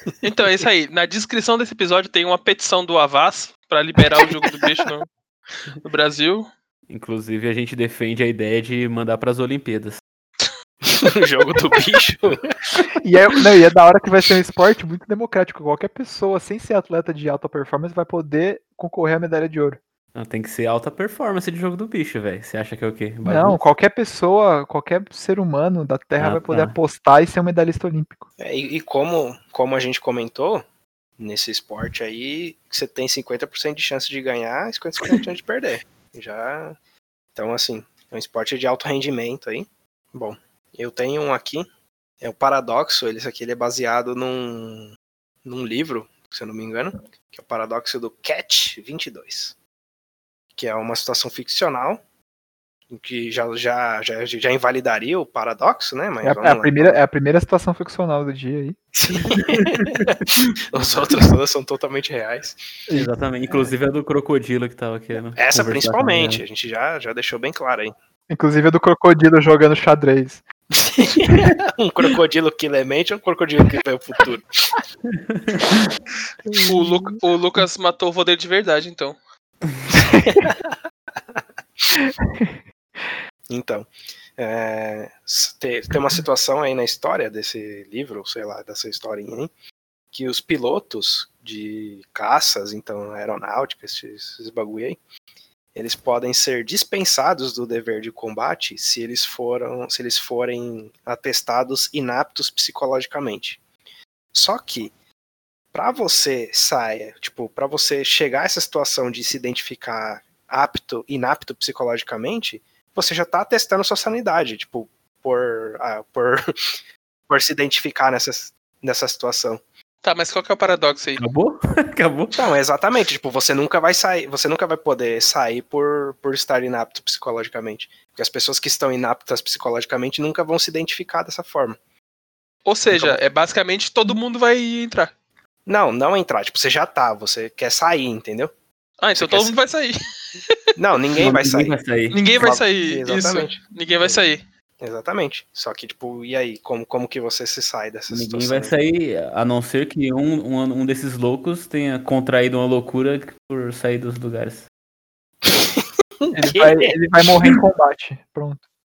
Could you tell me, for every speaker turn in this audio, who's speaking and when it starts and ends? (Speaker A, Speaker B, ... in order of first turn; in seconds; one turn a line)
Speaker A: 0.2-5.1
Speaker A: 5.8-6.5
Speaker B: 6.9-10.0
Speaker C: 10.9-12.8
Speaker D: 13.0-19.8
Speaker B: 20.1-23.6
Speaker D: 23.2-28.3
Speaker B: 26.2-26.7
Speaker C: 28.4-30.6
Speaker C: 31.2-36.8
Speaker C: 37.3-41.7
Speaker C: 42.2-49.5
Speaker C: 50.5-52.0
Speaker C: 52.9-57.0
Speaker D: 56.2-58.8
Speaker C: 59.0-62.6
Speaker B: 59.5-60.0
Speaker B: 62.9-66.4
Speaker C: 65.3-67.9
Speaker D: 68.3-70.4
Speaker C: 70.8-74.7
Speaker B: 75.3-75.8
Speaker D: 76.5-77.2
Speaker A: 76.7-79.2
Speaker C: 80.2-80.5
Speaker D: 82.0-82.5
Speaker C: 83.5-89.5
Speaker C: 90.1-95.0
Speaker C: 95.7-103.6
Speaker C: 104.3-104.9
Speaker C: 105.7-116.7
Speaker C: 117.3-119.6
Speaker A: 120.0-121.2
Speaker B: 121.2-122.4
Speaker C: 122.3-131.8
Speaker A: 132.7-135.1
Speaker C: 132.9-133.2
Speaker C: 135.7-138.5
Speaker A: 139.0-140.5
Speaker C: 139.2-139.5
Speaker C: 140.8-141.8
Speaker B: 141.1-142.2
Speaker A: 142.1-144.4
Speaker C: 142.3-144.2
Speaker C: 144.8-148.7
Speaker B: 148.1-154.7
Speaker C: 156.2-156.9
Speaker D: 156.3-158.6